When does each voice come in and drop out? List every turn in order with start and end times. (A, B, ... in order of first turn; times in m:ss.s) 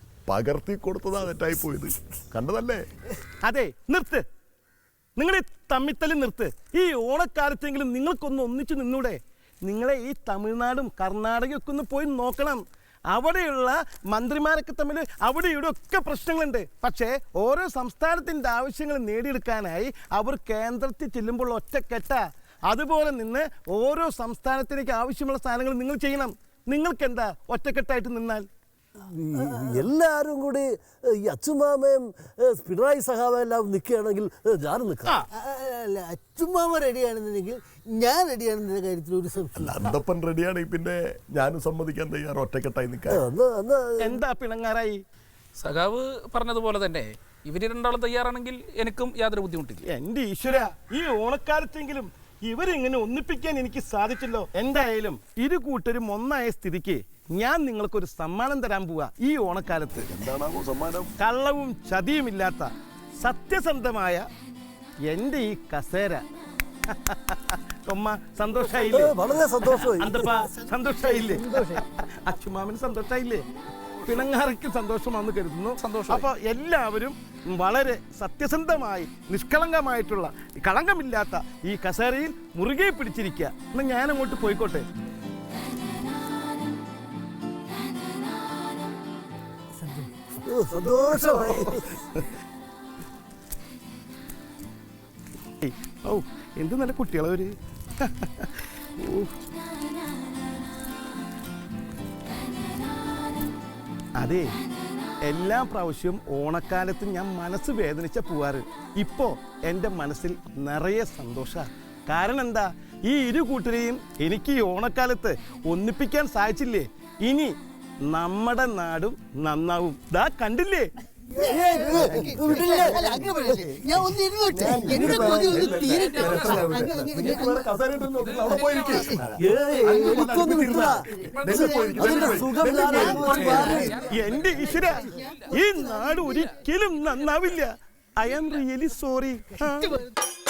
0:00.3-0:02.8 A
0:03.4-0:04.2 B
0:05.2-0:28.4 B
0:29.1-0:35.1 C
0:29.4-0:29.9 D
0:35.3-0:40.0 D
0:39.6-0:43.2 A
0:43.1-0:44.2 C
0:44.0-0:45.0 B
0:45.6-0:49.8 E
0:49.9-1:00.2 B
1:00.1-1:01.1 A
1:01.2-1:04.2 B
1:05.1-1:06.2 B
1:06.9-1:09.2 B
1:08.9-1:10.3 C
1:09.8-1:13.4 B
1:11.0-1:11.8 D
1:14.0-1:24.8 B
1:15.8-1:16.2 E
1:29.8-1:30.1 D
1:30.4-1:31.9 C
1:35.6-1:39.4 B
1:44.2-1:44.5 B
1:45.2-1:57.5 B
1:58.1-2:00.9 B
2:01.3-2:07.7 D
2:01.8-2:03.1 C
2:04.5-2:13.7 A
2:05.7-2:06.8 E
2:08.2-2:09.2 E
2:08.9-2:09.2 D
2:09.4-2:11.0 C
2:09.9-2:10.4 D
2:11.1-2:16.6 E
2:11.4-2:14.1 D
2:12.0-2:13.9 C
2:14.0-2:20.0 B
2:18.3-2:18.6 E